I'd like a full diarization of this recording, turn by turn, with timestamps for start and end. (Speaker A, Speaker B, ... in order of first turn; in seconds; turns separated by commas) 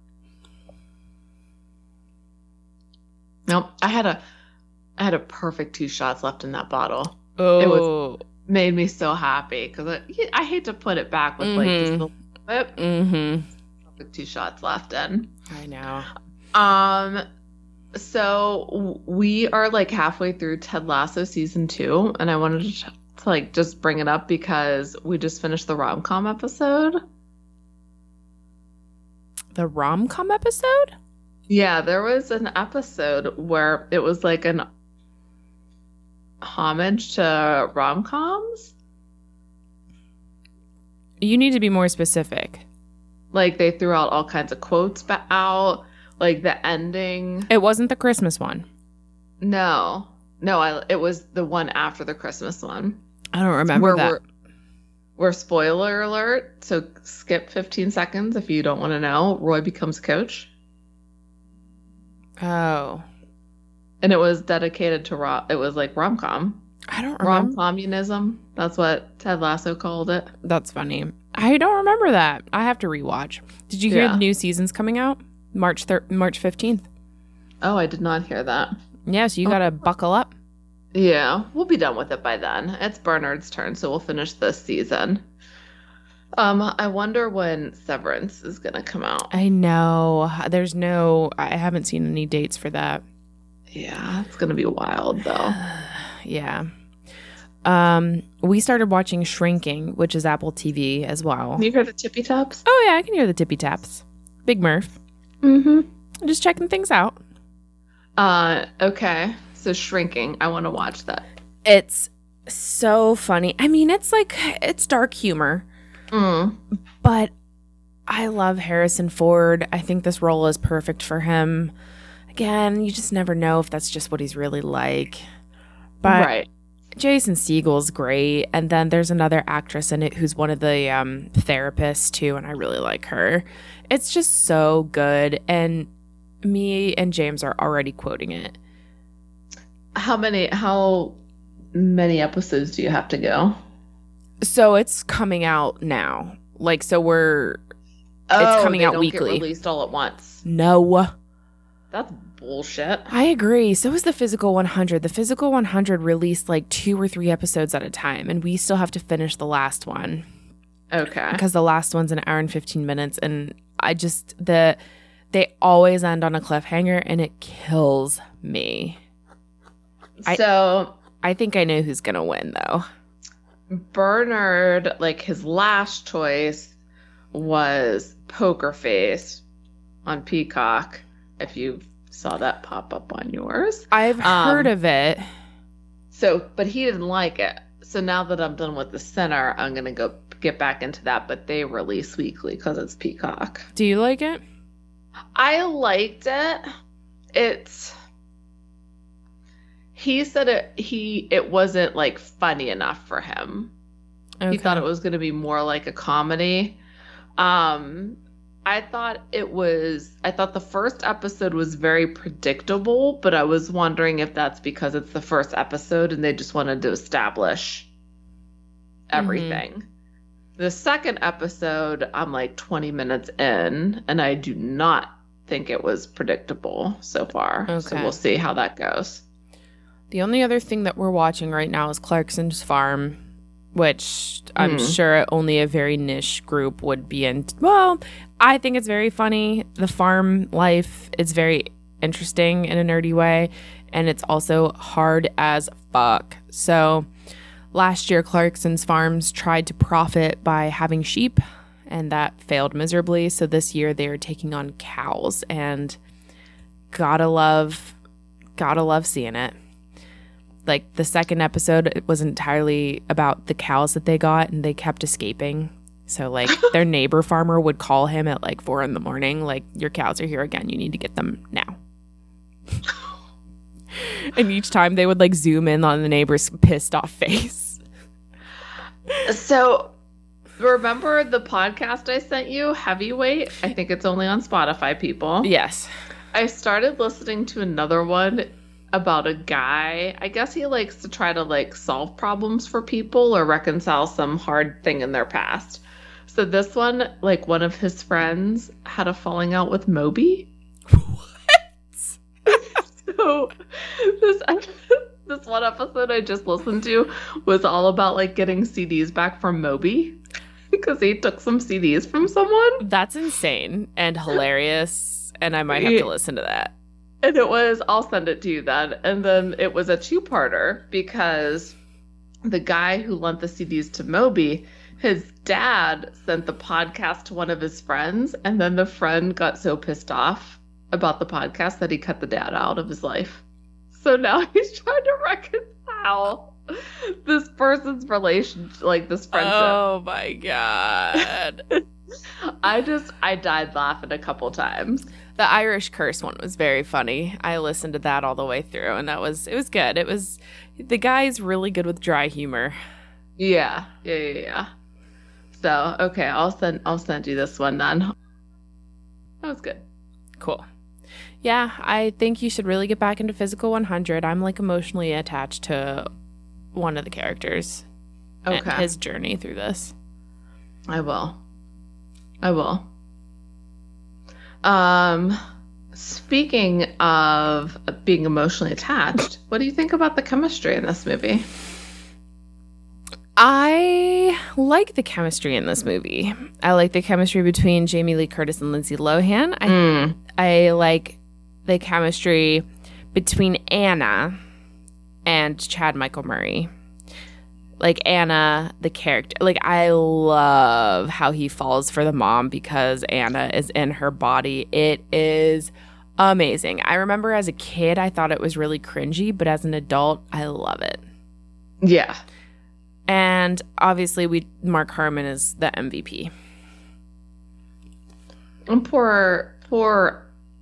Speaker A: 3.5-4.2, Speaker A: 5.0-7.9, Speaker B: 7.4-8.2, Speaker A: 8.5-12.8, Speaker B: 11.4-12.1, Speaker B: 12.8-13.5, Speaker A: 13.9-15.3, Speaker B: 15.5-16.1, Speaker A: 16.5-17.2, Speaker A: 17.9-27.0, Speaker B: 29.5-30.9, Speaker A: 31.5-34.7, Speaker A: 36.4-38.7, Speaker B: 41.2-42.6, Speaker A: 43.3-47.5, Speaker B: 47.5-48.7, Speaker A: 49.4-53.0, Speaker B: 53.3-54.2, Speaker A: 53.7-54.2, Speaker A: 55.2-60.5, Speaker B: 62.4-63.0, Speaker A: 64.0-66.6, Speaker B: 66.9-67.6, Speaker A: 67.2-70.3, Speaker B: 70.4-76.9, Speaker A: 73.9-74.2, Speaker A: 77.6-78.7, Speaker B: 79.1-80.3, Speaker A: 80.9-85.2, Speaker A: 86.4-89.3, Speaker B: 89.3-93.0, Speaker A: 93.7-95.6, Speaker B: 95.5-96.7, Speaker B: 97.6-101.7, Speaker A: 101.6-102.6, Speaker B: 102.7-105.0, Speaker A: 105.4-105.9, Speaker B: 106.2-107.2, Speaker A: 108.2-111.2, Speaker B: 111.7-115.7, Speaker A: 116.1-116.6, Speaker B: 117.0-117.3, Speaker B: 118.1-121.7, Speaker B: 122.3-125.2, Speaker B: 126.0-126.3, Speaker A: 126.0-126.5, Speaker B: 127.0-135.9, Speaker B: 136.4-138.6, Speaker A: 140.0-141.2, Speaker A: 141.7-143.6, Speaker B: 144.4-147.6, Speaker A: 148.3-150.4, Speaker B: 148.4-149.4, Speaker B: 150.4-151.1, Speaker A: 151.9-153.1, Speaker B: 153.1-160.2, Speaker A: 160.9-161.4, Speaker B: 161.3-164.8, Speaker B: 165.3-169.0, Speaker A: 170.2-171.0, Speaker B: 171.2-172.8, Speaker A: 173.7-176.8, Speaker A: 177.3-179.4, Speaker A: 180.1-184.7, Speaker B: 183.9-185.2, Speaker A: 186.1-193.7, Speaker B: 193.8-194.4, Speaker A: 195.3-196.7, Speaker A: 197.3-197.9, Speaker A: 199.9-203.7, Speaker B: 204.4-204.8, Speaker A: 204.5-206.8, Speaker A: 207.4-217.9, Speaker A: 219.1-219.8, Speaker B: 219.2-219.6, Speaker A: 220.6-229.2, Speaker B: 227.7-228.2, Speaker B: 230.1-233.2, Speaker B: 233.7-247.1, Speaker A: 234.6-235.0, Speaker B: 247.7-256.0, Speaker B: 256.9-257.9, Speaker B: 258.6-259.5, Speaker B: 260.7-271.8, Speaker B: 273.9-277.8, Speaker A: 279.2-279.9, Speaker A: 280.6-285.5, Speaker B: 285.4-285.9, Speaker A: 286.3-300.5, Speaker B: 300.9-302.2, Speaker A: 302.5-310.2, Speaker A: 310.8-312.8, Speaker B: 312.8-316.7, Speaker A: 315.7-316.1, Speaker A: 317.2-321.8, Speaker A: 322.5-339.8, Speaker B: 339.3-341.6, Speaker A: 342.4-345.1, Speaker B: 345.4-352.8, Speaker A: 353.4-354.7, Speaker A: 355.5-358.1, Speaker A: 359.4-359.8, Speaker B: 360.4-360.7, Speaker B: 361.4-366.1, Speaker B: 366.7-367.9, Speaker A: 368.5-368.9, Speaker B: 368.5-369.9, Speaker A: 370.9-371.4, Speaker A: 372.4-372.9, Speaker A: 374.6-375.4, Speaker A: 375.9-381.5, Speaker B: 383.4-394.4, Speaker A: 389.7-390.2, Speaker B: 395.2-396.7, Speaker B: 397.8-411.0, Speaker A: 411.8-412.2, Speaker B: 413.1-416.3, Speaker A: 418.7-420.3